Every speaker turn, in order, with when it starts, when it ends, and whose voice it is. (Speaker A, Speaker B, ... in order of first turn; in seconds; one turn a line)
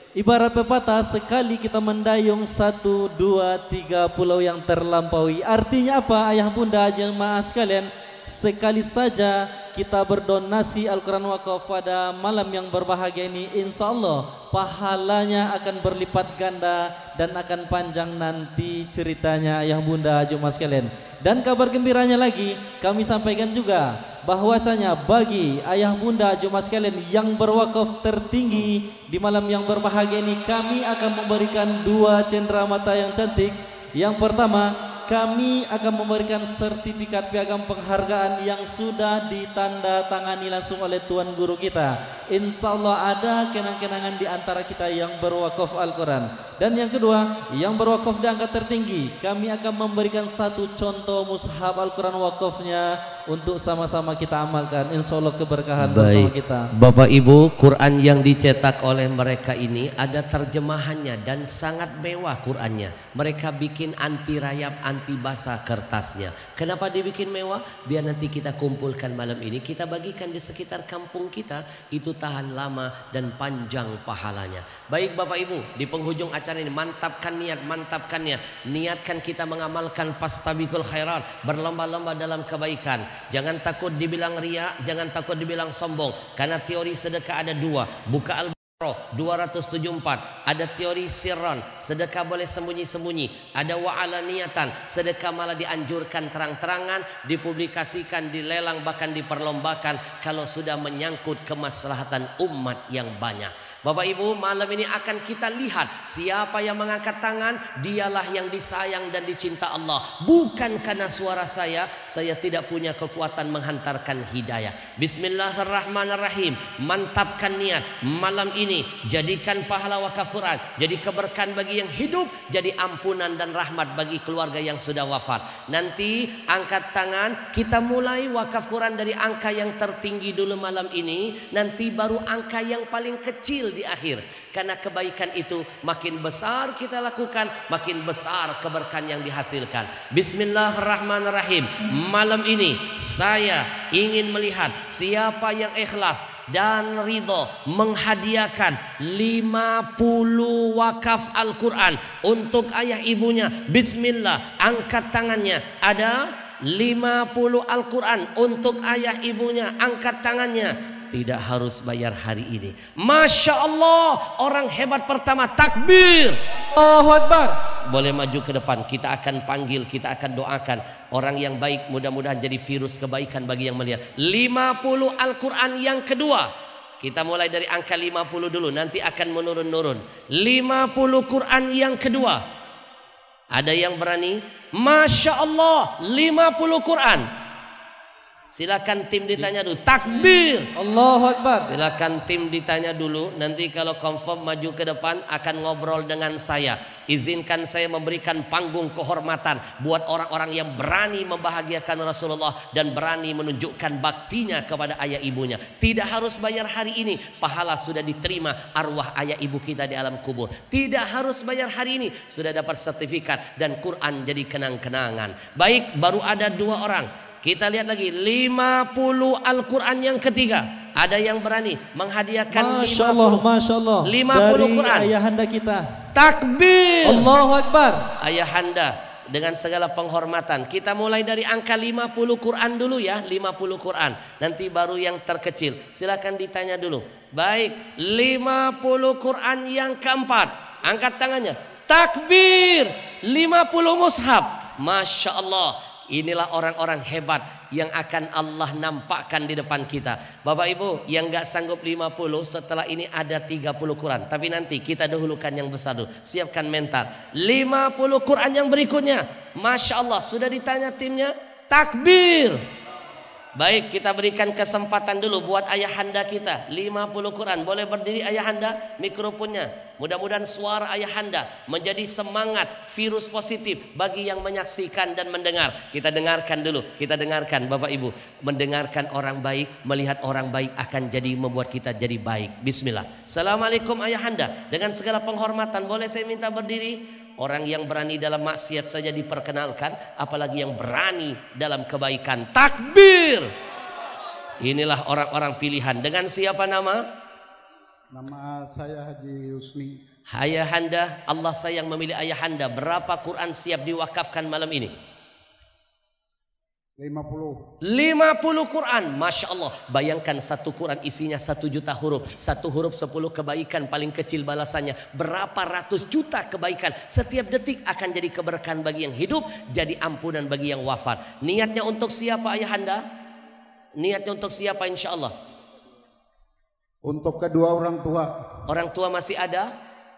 Speaker A: 0.2-56.7
Speaker B: 55.8-166.4
Speaker A: 166.7-167.6
Speaker B: 167.9-176.5
Speaker B: 177.0-182.4
Speaker B: 183.5-187.3
Speaker B: 188.5-190.7
Speaker A: 190.8-191.7
Speaker B: 191.6-223.4
Speaker A: 222.5-225.8
Speaker B: 224.0-225.1
Speaker B: 226.1-227.3
Speaker A: 227.0-228.0
Speaker B: 228.2-262.6
Speaker B: 263.6-293.5
Speaker B: 294.6-297.0
Speaker C: 298.1-300.0
Speaker B: 300.3-304.9
Speaker C: 307.0-307.6
Speaker B: 307.9-323.0
Speaker B: 324.0-325.3
Speaker C: 327.1-328.3
Speaker B: 328.7-329.7